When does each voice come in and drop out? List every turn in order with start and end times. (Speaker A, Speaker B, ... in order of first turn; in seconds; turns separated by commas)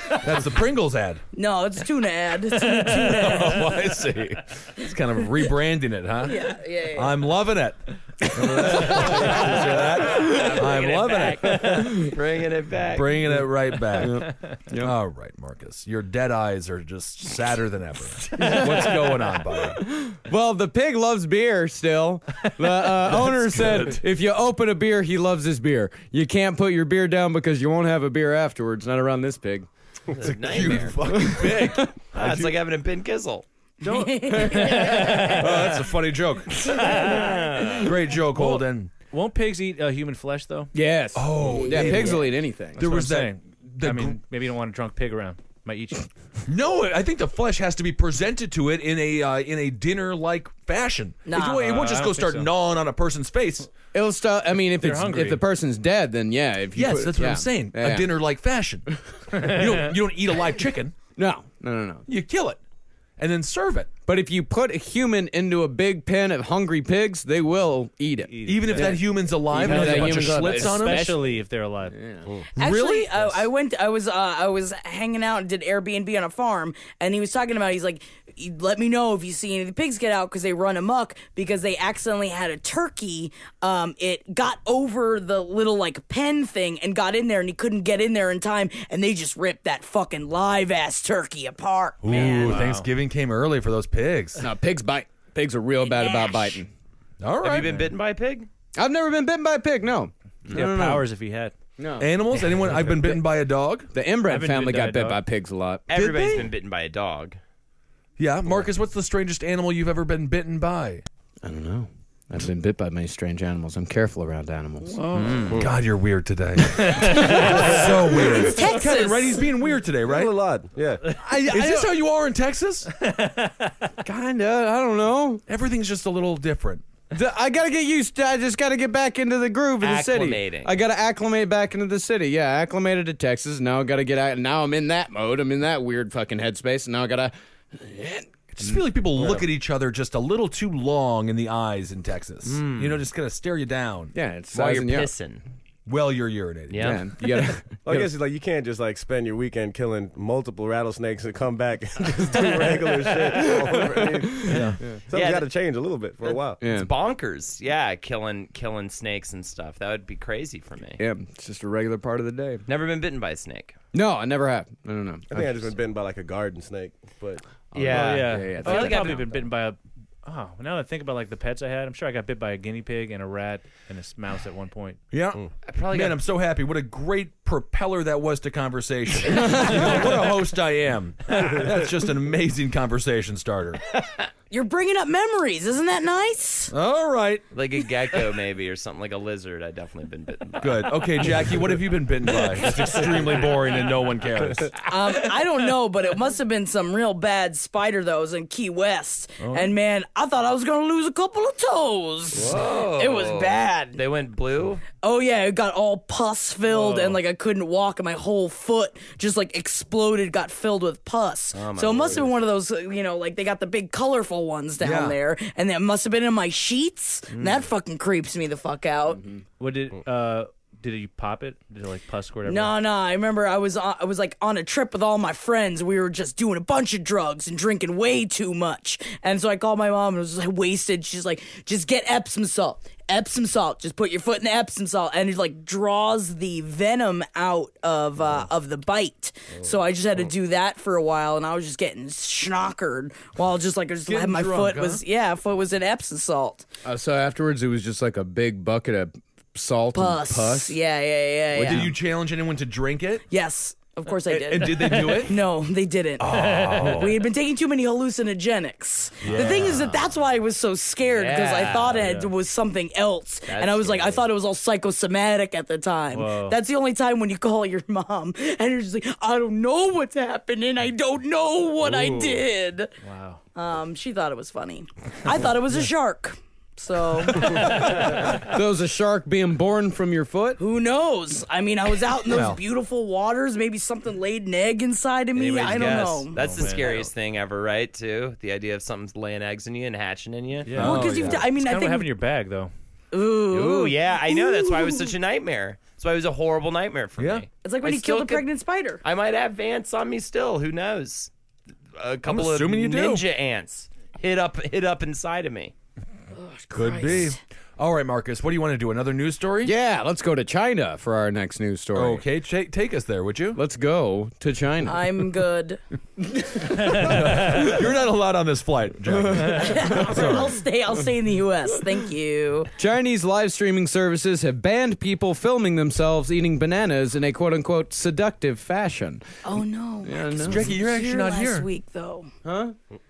Speaker A: 0.1-1.2, Speaker B: 1.3-3.8, Speaker A: 2.7-12.1, Speaker B: 6.2-7.2, Speaker C: 8.4-9.3, Speaker D: 8.9-13.4, Speaker E: 9.5-9.9, Speaker A: 12.9-19.8, Speaker C: 14.0-14.9, Speaker F: 14.3-14.5, Speaker C: 18.4-29.7, Speaker A: 23.1-24.0, Speaker D: 30.1-31.0, Speaker A: 30.2-32.5, Speaker C: 31.1-32.3, Speaker D: 32.1-33.4, Speaker B: 33.8-35.3, Speaker F: 33.8-35.8, Speaker A: 34.9-36.7, Speaker D: 36.5-37.9, Speaker B: 36.9-37.2, Speaker F: 37.0-37.3, Speaker A: 37.8-38.9, Speaker F: 38.3-40.7, Speaker C: 40.7-42.8, Speaker A: 41.1-42.2, Speaker B: 41.6-41.9, Speaker A: 42.8-44.2, Speaker F: 42.8-46.1, Speaker A: 46.5-53.7, Speaker B: 51.2-51.8, Speaker F: 51.5-52.5, Speaker C: 53.9-58.1, Speaker F: 54.8-55.4, Speaker A: 56.7-60.9, Speaker F: 59.4-59.9, Speaker C: 61.1-62.0, Speaker A: 62.1-62.6, Speaker A: 63.2-63.9, Speaker C: 64.0-71.2, Speaker F: 68.3-72.1, Speaker A: 68.5-71.2, Speaker C: 71.9-72.2, Speaker A: 72.5-73.4, Speaker B: 72.5-92.6, Speaker A: 92.0-94.4, Speaker F: 92.2-92.9, Speaker C: 94.4-96.7, Speaker B: 95.8-96.6, Speaker A: 97.2-97.8, Speaker D: 97.4-98.5, Speaker C: 98.7-101.1, Speaker F: 100.5-101.5, Speaker C: 101.8-103.2, Speaker A: 102.0-103.9, Speaker C: 103.9-105.8, Speaker F: 104.2-105.2, Speaker D: 105.9-107.4, Speaker A: 105.9-106.5, Speaker A: 108.2-111.0, Speaker C: 111.4-115.7, Speaker B: 114.9-115.5, Speaker A: 115.5-120.3, Speaker C: 116.7-117.7, Speaker F: 116.8-118.0, Speaker B: 118.1-119.5, Speaker E: 120.0-121.1, Speaker F: 121.0-121.9, Speaker A: 121.2-122.9, Speaker F: 122.9-123.7, Speaker C: 124.0-125.4, Speaker A: 125.5-126.8, Speaker C: 127.1-138.7, Speaker D: 129.8-130.7, Speaker A: 138.6-144.1, Speaker D: 142.4-143.0, Speaker C: 144.1-145.1, Speaker D: 144.5-145.4, Speaker A: 145.9-147.0, Speaker D: 146.7-147.0, Speaker C: 146.8-148.1, Speaker E: 147.8-156.6, Speaker C: 153.3-154.9, Speaker A: 154.4-154.8, Speaker D: 155.1-155.5, Speaker D: 156.2-161.0, Speaker C: 156.6-156.9, Speaker C: 161.0-162.6, Speaker D: 162.7-163.8, Speaker C: 163.9-165.7, Speaker E: 165.3-167.4, Speaker C: 167.7-169.2, Speaker D: 167.7-169.4, Speaker F: 167.9-175.1, Speaker A: 175.1-183.8, Speaker D: 175.6-176.2, Speaker B: 184.5-186.7, Speaker A: 186.7-187.4, Speaker D: 187.5-191.5, Speaker A: 190.6-194.7, Speaker D: 192.6-193.1, Speaker B: 194.8-204.0, Speaker A: 199.4-199.7, Speaker D: 202.3-204.8, Speaker B: 205.0-219.2, Speaker F: 206.7-207.2, Speaker D: 211.5-212.3, Speaker A: 214.8-215.2, Speaker D: 217.3-217.7, Speaker F: 219.6-222.7, Speaker B: 222.4-246.7, Speaker A: 244.1-245.0, Speaker C: 246.8-250.8, Speaker B: 249.9-251.9, Speaker C: 251.5-251.9, Speaker A: 251.6-253.2, Speaker B: 253.3-272.9, Speaker A: 254.3-255.4, Speaker A: 256.2-257.2, Speaker F: 256.3-257.0, Speaker A: 259.2-259.6, Speaker D: 259.2-260.0, Speaker D: 261.1-262.0, Speaker F: 261.9-262.3, Speaker D: 263.5-264.2, Speaker F: 266.1-266.6, Speaker F: 273.0-273.4, Speaker B: 273.5-278.0, Speaker C: 278.2-280.6, Speaker B: 280.6-287.1, Speaker A: 282.3-282.6, Speaker D: 285.3-290.9, Speaker F: 286.3-287.1, Speaker F: 290.6-292.7, Speaker A: 290.7-291.5, Speaker B: 290.8-292.1, Speaker B: 293.1-295.1, Speaker D: 293.5-298.5, Speaker A: 297.2-297.4, Speaker B: 297.6-299.0, Speaker D: 299.0-301.3, Speaker D: 301.9-305.7, Speaker A: 302.2-303.2, Speaker B: 306.4-307.4, Speaker A: 306.7-309.7, Speaker C: 309.6-312.2, Speaker A: 311.9-313.6, Speaker C: 313.5-315.2, Speaker B: 314.9-315.8, Speaker C: 316.3-317.6, Speaker A: 316.7-320.5, Speaker B: 319.5-322.7, Speaker C: 322.8-329.2, Speaker B: 329.4-332.3, Speaker C: 330.0-330.7, Speaker A: 330.4-331.7, Speaker C: 332.4-332.8